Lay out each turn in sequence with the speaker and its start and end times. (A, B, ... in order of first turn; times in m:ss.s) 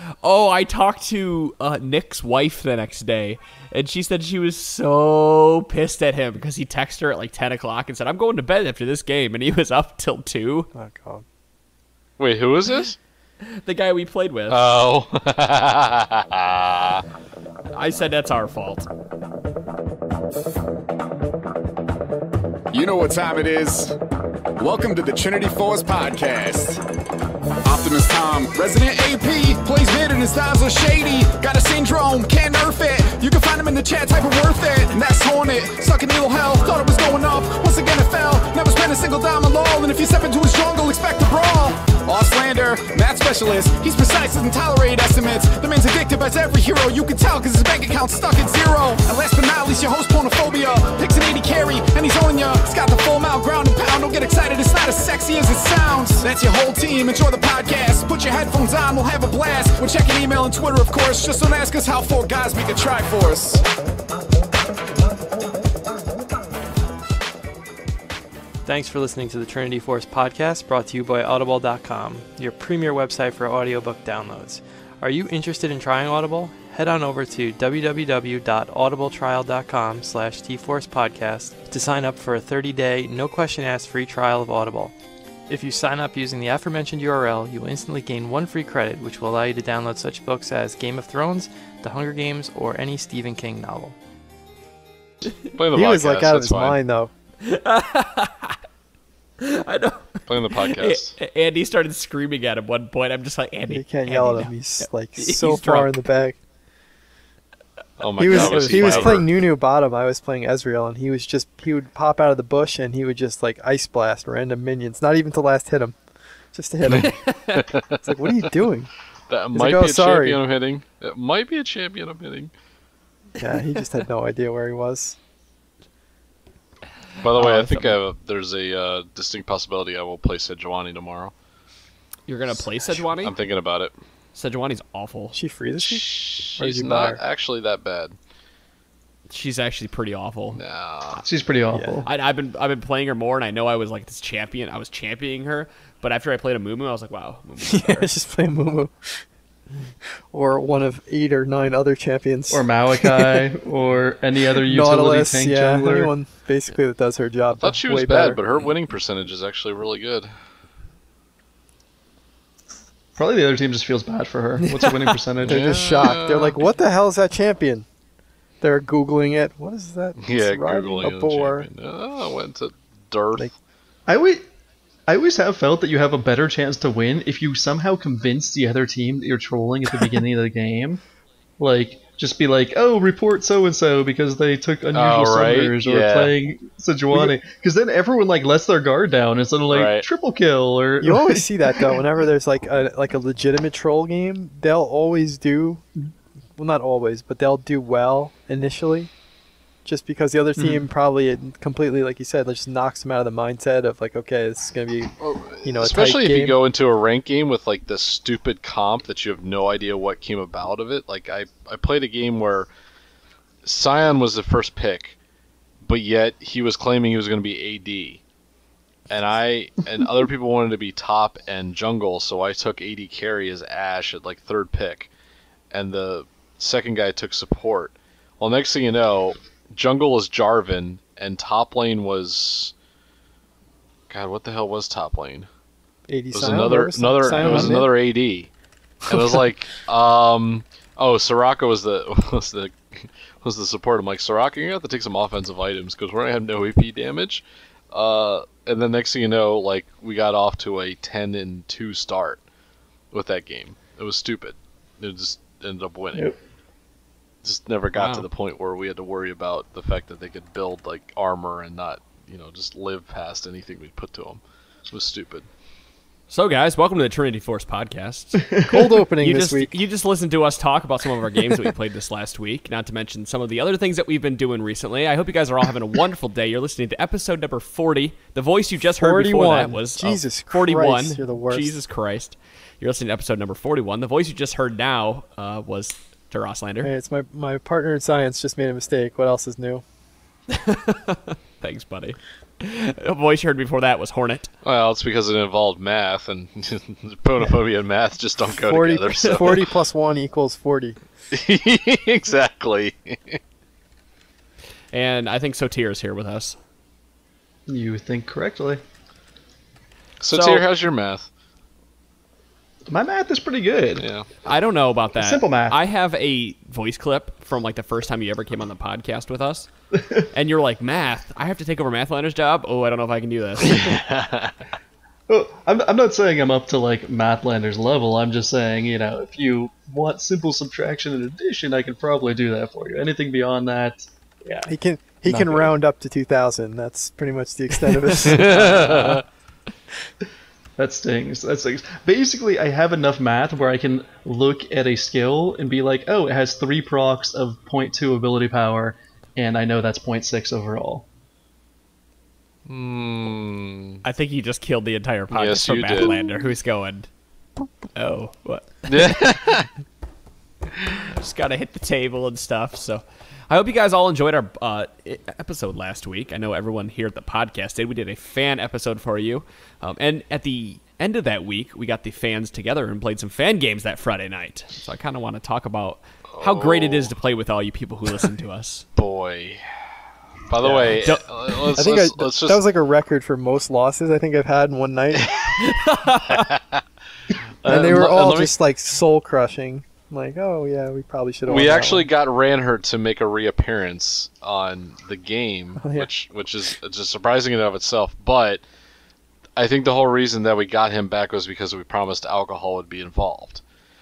0:00.2-0:10.7 A
0:10.7-0:11.2 B
0:12.2-0:13.0 C
0:13.4-0:14.8 A
0:14.5-0:17.0 C
0:17.7-0:18.9 A
0:22.7-0:24.0 D
0:24.6-0:26.8 D
0:27.6-1:03.6 D
1:08.6-1:24.9 E
1:25.5-1:34.0 E
1:35.6-1:36.8 C
1:35.7-1:37.1 B
1:37.4-1:38.6 A
1:39.4-1:45.9 A
1:40.3-1:41.2 C
1:43.7-1:46.4 B
1:48.0-1:49.2 C
1:48.2-1:49.2 A
1:48.2-1:56.0 B
1:56.5-1:57.2 B
1:56.9-1:58.0 C
1:56.9-1:57.7 A
1:58.0-1:58.9 B
1:59.3-2:02.5 C
1:59.5-2:00.4 B
2:03.4-2:05.2 B
2:07.2-2:11.3 C
2:07.4-2:08.0 A
2:12.3-2:13.3 A
2:13.2-2:13.9 C
2:14.3-2:15.4 A
2:15.3-2:17.2 B
2:15.8-2:18.2 C
2:19.3-2:20.6 A
2:20.6-2:21.2 C
2:21.2-2:22.1 F
2:21.7-2:22.0 B
2:22.0-2:28.1 A
2:27.6-2:29.2 B
2:30.3-2:33.4 B
2:32.5-2:36.1 F
2:34.6-2:38.4 B
2:37.6-2:40.3 C
2:43.2-2:46.0 F
2:45.4-2:46.6 C
2:45.5-2:47.9 B
2:48.6-2:51.7 B
2:50.2-2:53.5 C
2:54.1-2:54.5 F
2:55.1-3:01.0 F
3:01.6-3:12.0 F
3:04.9-3:06.3 C
3:09.7-3:10.0 C
3:11.0-3:15.8 B
3:16.6-3:19.1 B
3:19.8-3:26.6 B
3:20.6-3:20.8 F
3:25.2-3:32.7 C
3:33.6-3:35.2 C
3:35.8-3:38.2 C
3:39.1-3:45.1 C
3:45.7-3:52.7 C
3:54.1-3:55.5 C
3:56.1-3:57.9 B
3:56.3-3:58.5 C
3:57.4-3:57.8 F
3:59.1-4:12.4 C
3:59.1-3:59.4 B
4:13.1-4:16.3 C
4:17.4-4:25.5 C
4:17.9-4:18.3 A
4:26.3-4:28.6 A
4:28.6-4:29.7 B
4:29.2-4:46.9 A
4:39.0-4:41.7 B
4:46.8-4:49.8 B
4:50.5-4:54.5 A
4:54.6-4:59.7 C
4:58.6-5:01.0 B
5:01.3-5:03.4 C
5:04.9-5:06.6 A
5:07.7-5:08.8 F
5:10.2-5:11.3 C
5:10.3-5:10.6 A
5:12.9-5:14.1 F
5:14.0-5:14.3 C
5:14.4-5:19.7 A
5:15.2-5:15.8 F
5:19.9-5:20.2 F
5:20.3-5:24.0 A
5:23.6-5:24.5 C
5:25.3-5:34.7 F
5:34.6-5:39.2 B
5:38.2-5:39.2 C
5:40.8-5:51.1 F
5:52.6-5:54.0 C
5:54.0-5:57.1 A
5:55.3-5:56.3 C
5:57.9-5:59.4 A
5:58.9-5:59.7 C
6:01.1-6:18.9 A
6:16.3-6:17.1 C
6:19.0-6:19.6 C
6:20.5-6:22.6 C
6:20.6-6:21.0 B
6:20.7-6:21.3 A
6:21.8-6:25.3 B
6:25.2-6:25.5 C
6:25.6-6:26.4 A
6:26.3-6:26.8 C
6:27.6-6:28.6 C
6:27.6-6:32.1 B
6:31.5-6:38.6 C
6:35.8-6:36.1 B
6:39.6-6:43.6 C